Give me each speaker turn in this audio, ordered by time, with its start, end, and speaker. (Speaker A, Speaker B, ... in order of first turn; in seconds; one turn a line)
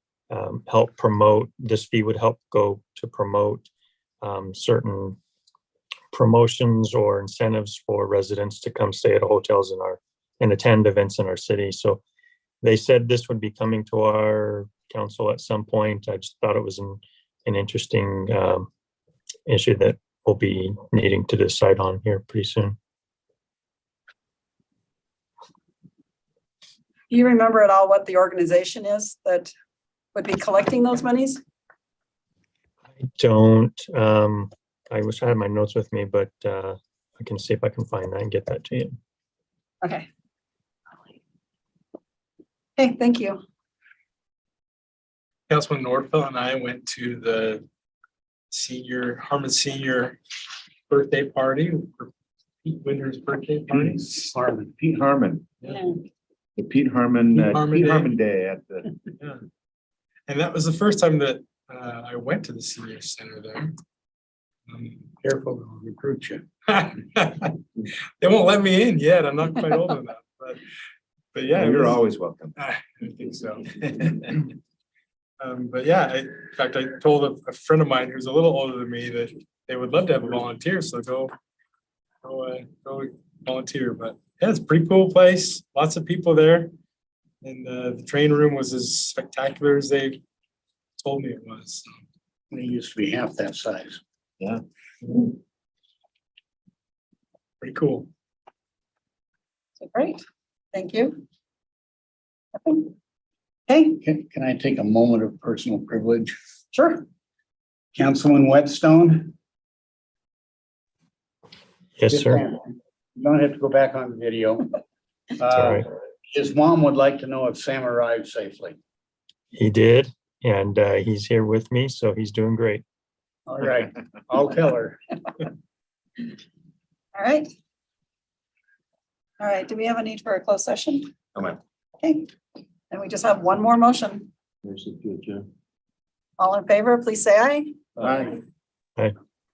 Speaker A: 0.3-3.7
Speaker A: 4.2-5.2
Speaker A: 6.1-12.0
Speaker A: 12.6-18.7
Speaker A: 19.5-22.8
Speaker B: 27.1-29.5
Speaker B: 30.1-31.4
Speaker A: 33.0-39.0
Speaker B: 39.8-40.1
Speaker B: 42.8-43.4
Speaker C: 45.5-47.6
Speaker C: 48.5-50.2
Speaker C: 50.9-52.1
Speaker C: 52.6-54.3
Speaker D: 53.7-54.0
Speaker E: 53.8-54.8
Speaker D: 54.8-55.5
Speaker D: 56.6-59.0
Speaker C: 57.4-58.1
Speaker C: 60.3-63.8
Speaker C: 64.7-65.1
Speaker E: 65.2-66.4
Speaker C: 66.7-67.6
Speaker C: 68.2-70.6
Speaker C: 71.3-72.0
Speaker D: 71.5-72.5
Speaker C: 72.5-74.4
Speaker C: 75.4-81.3
Speaker C: 82.2-86.7
Speaker C: 87.4-90.2
Speaker C: 91.0-92.0
Speaker E: 92.5-94.0
Speaker C: 97.6-98.1
Speaker B: 99.8-100.2
Speaker B: 100.7-101.2
Speaker B: 102.5-102.9
Speaker B: 103.7-104.0
Speaker E: 104.0-106.3
Speaker B: 106.7-107.0
Speaker E: 107.9-109.3
Speaker A: 112.0-112.4
Speaker E: 112.1-114.7
Speaker E: 115.4-118.8
Speaker A: 115.5-115.8
Speaker A: 119.5-122.8
Speaker E: 123.5-125.0
Speaker B: 127.2-127.5
Speaker B: 129.4-131.1
Speaker B: 132.0-132.3
Speaker B: 132.9-134.3
Speaker D: 134.7-135.4
Speaker B: 136.4-137.7
Speaker D: 138.0-138.4